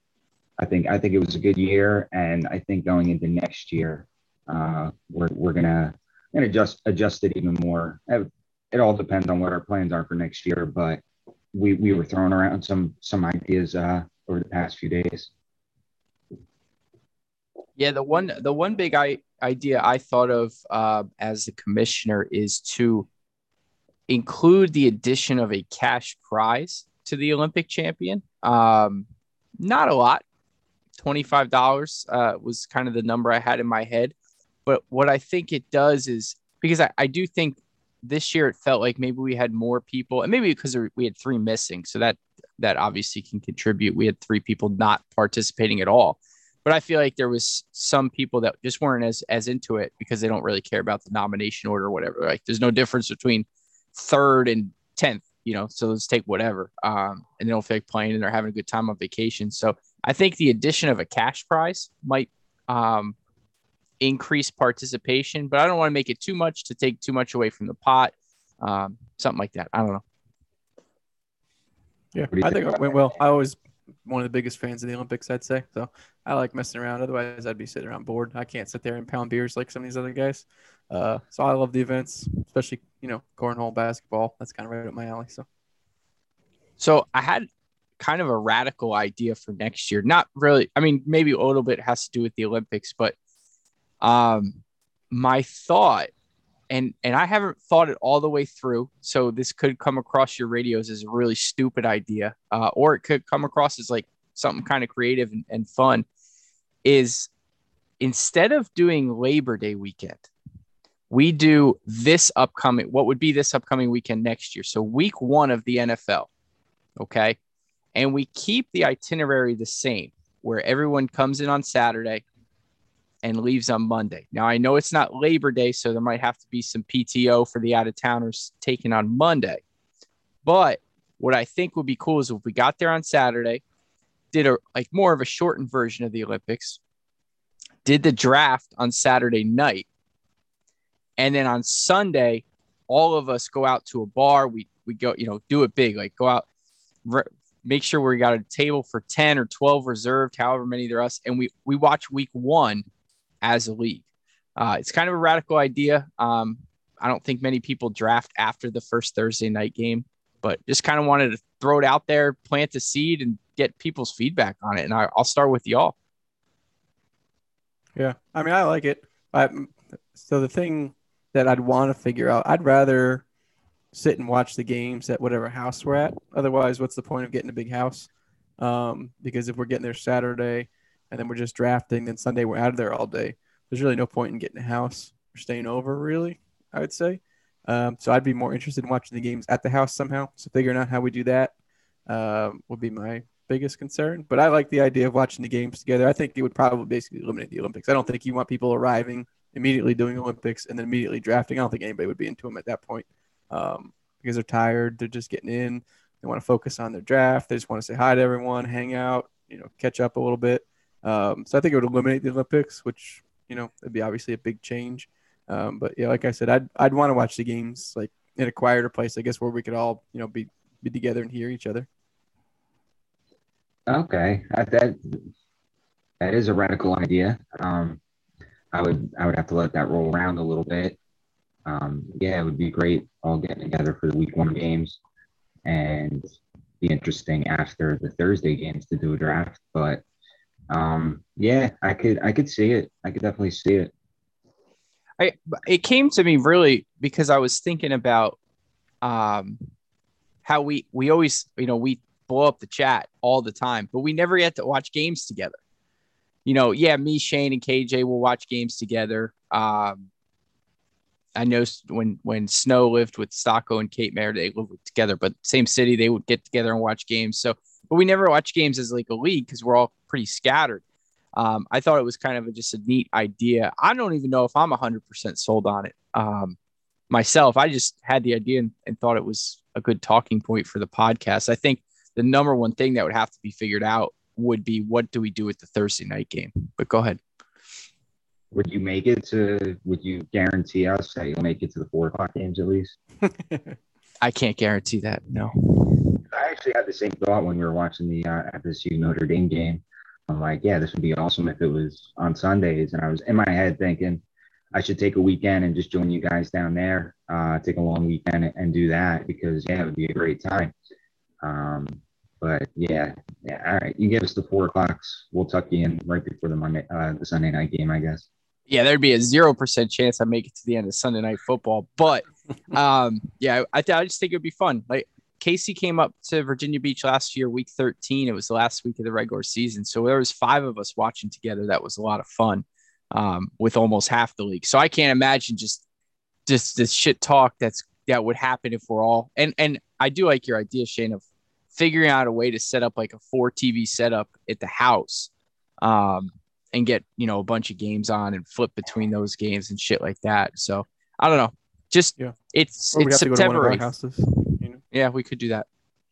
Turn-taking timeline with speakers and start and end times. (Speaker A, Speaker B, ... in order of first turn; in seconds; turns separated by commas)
Speaker A: 0.6-15.3, Speaker B: 17.8-23.1, Speaker B: 24.1-29.1, Speaker B: 29.6-30.2, Speaker B: 31.0-34.1, Speaker B: 34.7-63.2, Speaker B: 64.0-70.0, Speaker C: 72.1-85.5, Speaker A: 72.3-73.1, Speaker B: 86.8-87.5, Speaker B: 88.0-93.2, Speaker B: 94.0-94.6, Speaker B: 95.1-96.1, Speaker B: 96.7-106.1, Speaker B: 106.8-107.3, Speaker B: 108.0-110.3, Speaker B: 111.1-116.3, Speaker B: 117.0-117.4, Speaker B: 118.0-122.2, Speaker B: 123.2-129.6, Speaker B: 130.4-133.6, Speaker B: 134.3-136.8, Speaker B: 137.8-139.9, Speaker B: 141.2-146.5, Speaker B: 147.1-152.9, Speaker B: 153.4-154.0, Speaker B: 154.6-165.9, Speaker C: 168.0-173.2, Speaker C: 173.9-178.1, Speaker C: 178.6-191.5, Speaker C: 192.1-221.9, Speaker A: 223.9-225.2, Speaker A: 226.2-228.0, Speaker A: 228.7-231.0, Speaker A: 231.7-235.0, Speaker A: 235.7-236.3, Speaker A: 236.8-240.0, Speaker A: 240.7-243.9, Speaker B: 245.2-248.4, Speaker B: 249.0-249.7, Speaker B: 250.4-255.6, Speaker B: 256.5-260.1, Speaker B: 261.4-270.8, Speaker B: 271.4-276.6, Speaker B: 277.1-287.2, Speaker A: 288.5-293.0, Speaker B: 294.2-295.9, Speaker A: 296.3-310.7, Speaker A: 311.4-318.3, Speaker B: 318.7-335.8, Speaker B: 336.5-341.2, Speaker B: 341.7-345.3, Speaker B: 345.8-353.9, Speaker C: 352.9-354.8, Speaker B: 354.9-355.7